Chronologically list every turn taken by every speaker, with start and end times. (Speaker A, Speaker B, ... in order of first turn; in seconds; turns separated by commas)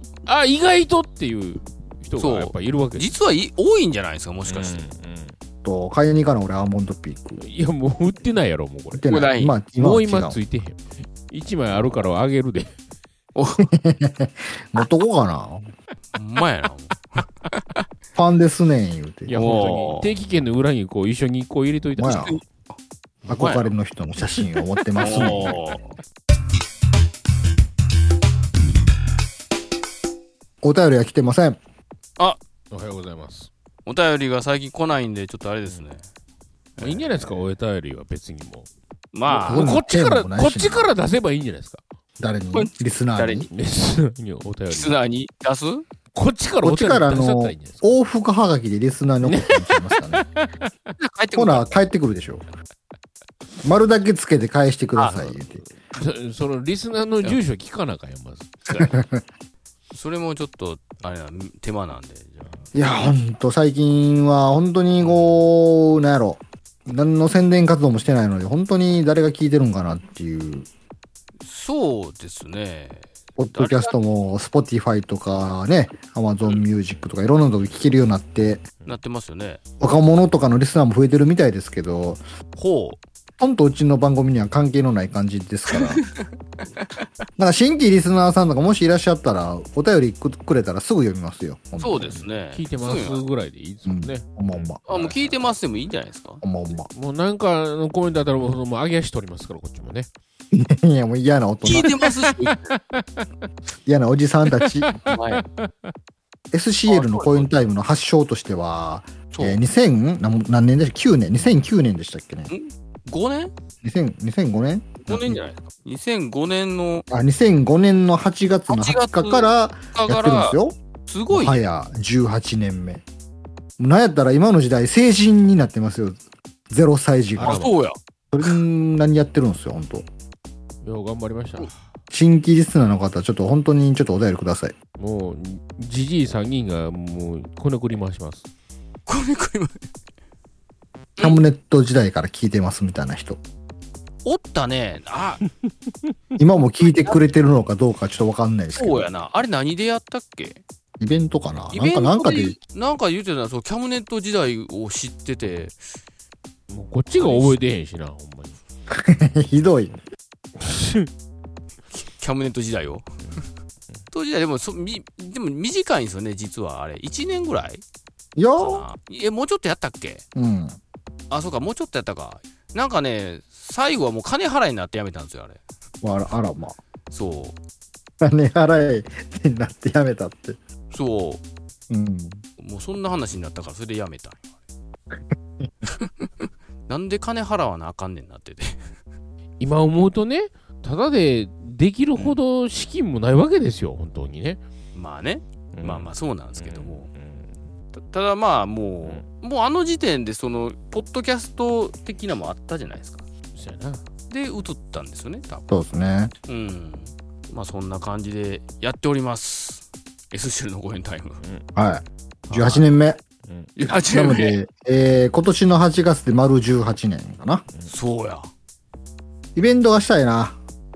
Speaker A: 0.2-3.1, Speaker B: 2.2-4.8, Speaker A: 4.5-5.3, Speaker C: 5.6-7.4, Speaker A: 7.4-9.1, Speaker C: 8.9-10.4, Speaker B: 9.1-9.6, Speaker A: 9.8-12.7, Speaker B: 13.3-13.7, Speaker C: 13.6-15.7, Speaker B: 16.1-17.8, Speaker C: 18.1-19.6, Speaker A: 19.3-22.4, Speaker B: 19.3-20.1, Speaker C: 22.0-22.4, Speaker B: 22.0-22.6, Speaker B: 23.2-23.7, Speaker C: 23.2-25.6, Speaker B: 24.9-25.8, Speaker C: 30.6-31.6, Speaker A: 32.7-33.5, Speaker B: 33.9-36.0, Speaker B: 36.8-37.3, Speaker A: 36.8-38.7, Speaker B: 39.1-39.7, Speaker C: 39.3-40.9, Speaker A: 39.4-41.8, Speaker C: 42.2-43.5, Speaker B: 42.5-43.5, Speaker A: 43.5-45.0, Speaker B: 44.7-45.8, Speaker A: 46.1-47.8, Speaker C: 46.6-50.2, Speaker A: 49.2-50.9, Speaker B: 51.0-51.8, Speaker C: 51.3-52.4, Speaker C: 53.6-55.6, Speaker B: 54.9-55.4, Speaker A: 55.9-58.7, Speaker B: 58.7-58.9, Speaker C: 59.0-59.2, Speaker B: 59.9-62.4, Speaker C: 62.7-70.7, Speaker B: 71.4-73.9, Speaker C: 73.4-78.7, Speaker B: 78.8-79.6, Speaker C: 79.8-82.2, Speaker B: 82.5-83.0, Speaker C: 83.4-86.0, Speaker B: 85.7-86.2, Speaker B: 86.8-87.0, Speaker C: 87.4-92.2, Speaker B: 91.8-93.2, Speaker A: 92.5-95.5, Speaker C: 93.8-94.8, Speaker B: 94.9-96.4, Speaker C: 96.4-96.9, Speaker A: 96.9-100.1, Speaker C: 100.5-102.0, Speaker B: 101.6-102.7, Speaker A: 102.3-103.0, Speaker C: 103.8-104.9, Speaker A: 105.0-105.9, Speaker B: 105.1-105.4, Speaker C: 106.5-112.5, Speaker B: 106.9-107.5, Speaker B: 109.3-109.6, Speaker B: 112.5-113.5, Speaker C: 113.8-115.4, Speaker B: 115.1-117.0, Speaker C: 117.1-120.8, Speaker B: 118.7-121.6, Speaker C: 121.3-123.0, Speaker C: 123.8-126.2, Speaker C: 126.7-127.7, Speaker A: 127.4-127.7, Speaker B: 127.4-128.0, Speaker C: 128.3-130.1, Speaker A: 130.8-131.7, Speaker C: 132.1-134.7, Speaker A: 135.0-138.5, Speaker B: 139.1-139.8, Speaker C: 141.2-143.4, Speaker B: 144.2-145.4, Speaker C: 146.4-149.1, Speaker B: 146.8-147.2, Speaker B: 148.7-150.6, Speaker C: 151.0-152.6, Speaker B: 151.7-155.8, Speaker A: 156.7-158.6, Speaker B: 157.2-157.6, Speaker C: 158.9-160.0, Speaker A: 160.6-161.1, Speaker B: 161.9-163.1, Speaker B: 164.1-167.8, Speaker C: 168.4-168.8, Speaker B: 168.6-170.2, Speaker C: 170.3-170.8, Speaker B: 171.3-175.6, Speaker C: 176.0-176.8, Speaker B: 177.1-177.6, Speaker C: 178.2-180.6, Speaker B: 180.9-181.4, Speaker C: 181.9-182.4, Speaker B: 182.6-184.5, Speaker C: 185.1-185.7, Speaker B: 185.9-188.9, Speaker A: 189.6-194.6, Speaker B: 194.9-197.1, Speaker A: 195.7-197.5, Speaker B: 197.9-203.2, Speaker A: 203.6-204.0, Speaker B: 204.3-205.7, Speaker C: 205.7-206.3, Speaker B: 206.5-211.4, Speaker C: 211.7-213.2, Speaker B: 212.5-212.9, Speaker A: 213.4-213.7, Speaker B: 213.8-214.6, Speaker C: 214.1-217.7, Speaker B: 217.9-218.5, Speaker C: 219.6-220.6